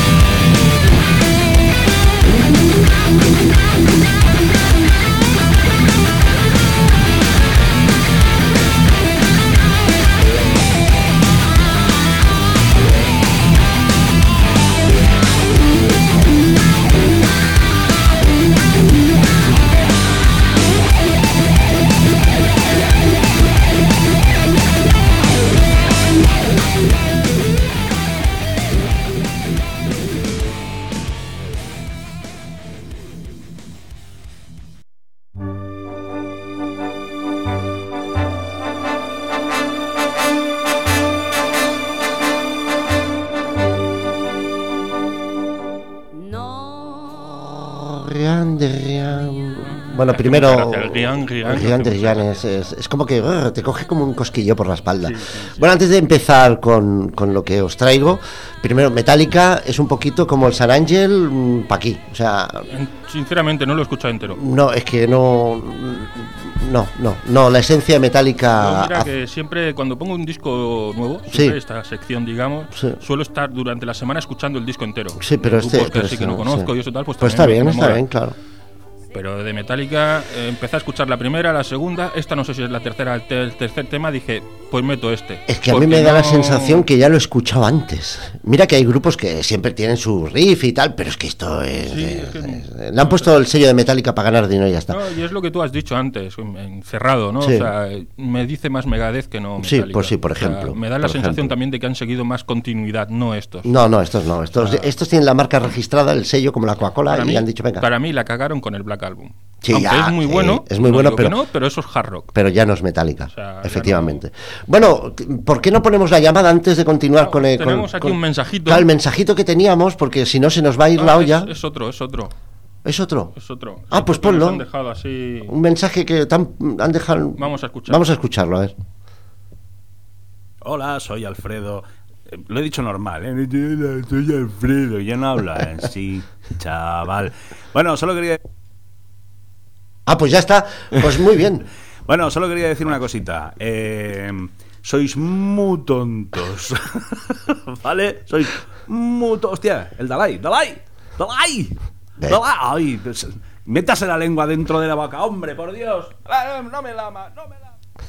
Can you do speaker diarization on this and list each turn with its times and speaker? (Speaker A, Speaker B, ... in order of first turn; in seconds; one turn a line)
Speaker A: 47.3-62.7
Speaker B: 50.0-52.5
Speaker B: 55.0-55.7
Speaker B: 62.7-64.4
Speaker A: 64.3-69.1
Speaker B: 68.5-78.0
Speaker A: 71.3-71.6
Speaker A: 72.7-73.0
Speaker A: 75.2-78.3
Speaker B: 79.1-86.8
Speaker A: 85.5-95.0
Speaker B: 91.8-93.3
Speaker B: 94.9-103.7
Speaker A: 97.4-97.7
Speaker A: 99.6-101.5
Speaker A: 103.6-107.9
Speaker B: 104.5-104.9
Speaker B: 107.1-112.3
Speaker A: 109.6-111.4
Speaker A: 112.3-121.5
Speaker B: 113.3-114.2
Speaker B: 117.2-118.9
Speaker B: 121.0-122.3
Speaker A: 122.8-123.3
Speaker B: 123.3-125.5
Speaker A: 123.9-124.6
Speaker A: 125.5-128.7
Speaker B: 127.4-128.1
Speaker C: 130.6-138.4
Speaker A: 140.1-141.7
Speaker C: 142.1-151.7
Speaker C: 152.3-157.7